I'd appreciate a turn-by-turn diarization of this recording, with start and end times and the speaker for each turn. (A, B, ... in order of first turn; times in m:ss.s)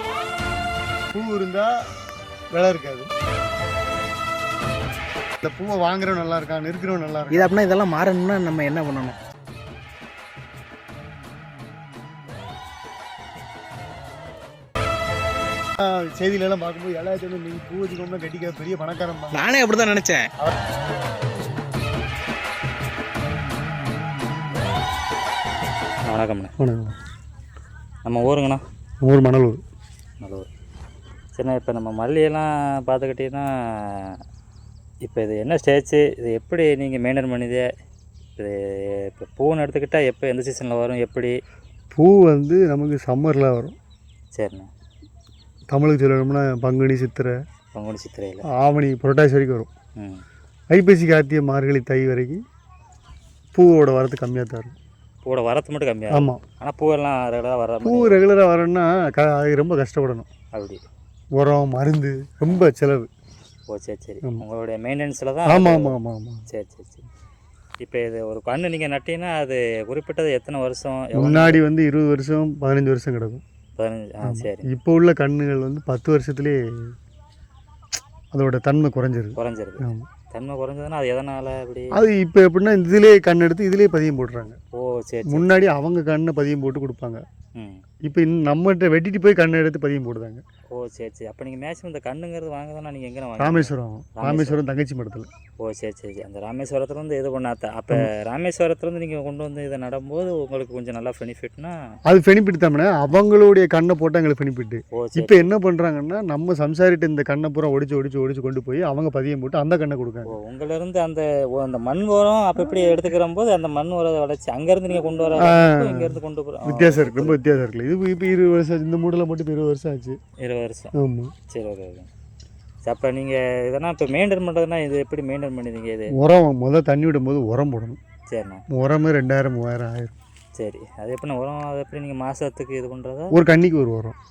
0:01.1-0:01.7 A
0:02.5-0:03.1 A
0:05.4-0:07.5 A
0:07.3-0:09.2 B
0:15.8-0:19.5 A
0:19.3-0:20.2 B
0:26.1-0:26.5 C
0:26.6-0:26.9 A
0:28.0-0:28.6 C
0:29.0-0:29.6 A
0:30.2-0:30.5 C
0:31.4-0:34.2 C
0:35.0-0:37.6 C
0:38.4-0:41.3 C
0:41.9-0:43.7 A
0:44.3-0:44.7 C
0:45.7-0:47.3 A
0:47.7-0:48.4 C
0:48.5-0:49.7 A
0:50.0-0:50.2 C
0:50.7-0:52.4 A
0:53.5-0:54.7 A
0:55.2-0:58.2 C
0:56.1-0:56.4 A
0:57.8-1:00.2 A
1:00.5-1:00.8 C
1:01.4-1:03.1 A
1:03.7-1:06.0 C
1:05.5-1:06.4 A
1:06.5-1:07.1 C
1:07.8-1:11.6 C
1:11.1-1:13.4 A
1:13.8-1:14.7 C
1:14.2-1:16.6 A
1:18.3-1:20.1 A
1:19.4-1:21.9 C
1:21.9-1:24.6 A
1:24.7-1:25.5 C
1:25.3-1:27.2 A
1:28.0-1:30.4 A
1:30.7-1:34.6 C
1:33.4-1:35.3 A
1:35.6-1:41.7 C
1:42.1-1:50.3 A
1:44.9-1:45.5 C
1:50.3-1:57.4 C
1:55.4-1:56.1 A
1:56.6-2:00.2 A
2:00.4-2:00.9 C
2:01.0-2:01.3 A
2:01.5-2:02.1 C
2:02.8-2:06.1 C
2:06.1-2:08.0 A
2:08.3-2:08.6 C
2:08.7-2:10.1 A
2:10.6-2:13.3 C
2:13.3-2:14.2 A